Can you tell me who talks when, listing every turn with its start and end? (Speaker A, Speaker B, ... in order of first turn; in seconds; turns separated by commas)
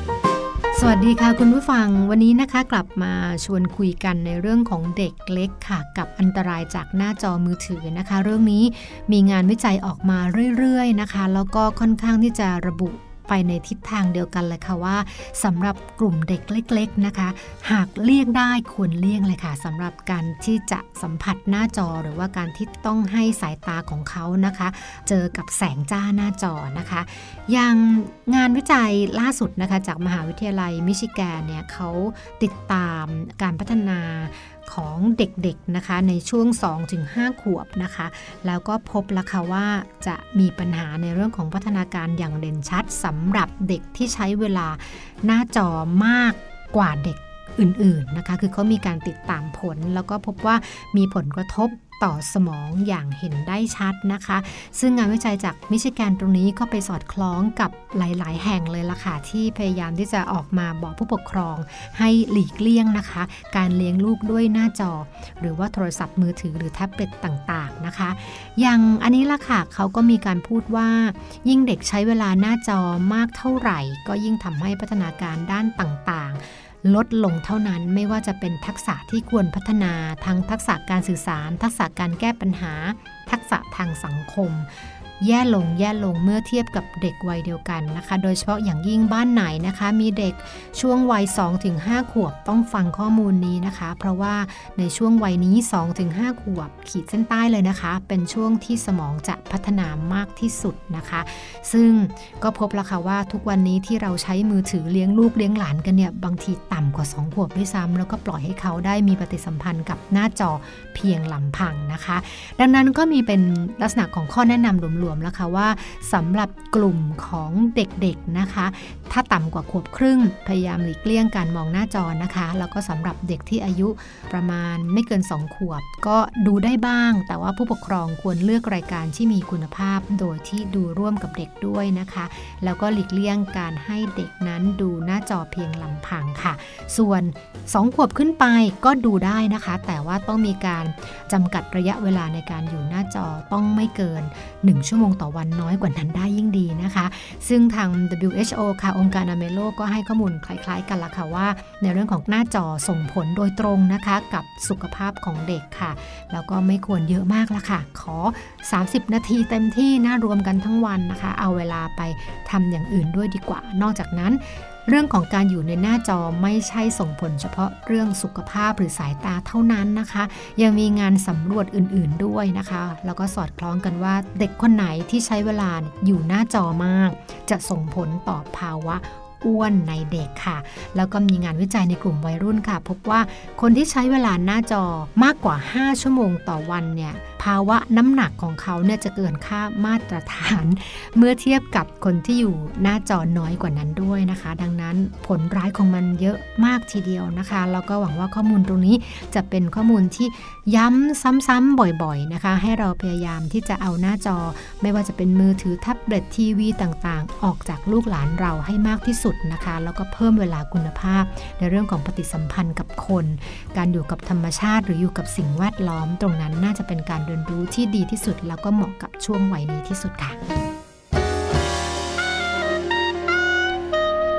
Speaker A: 0.7-220.4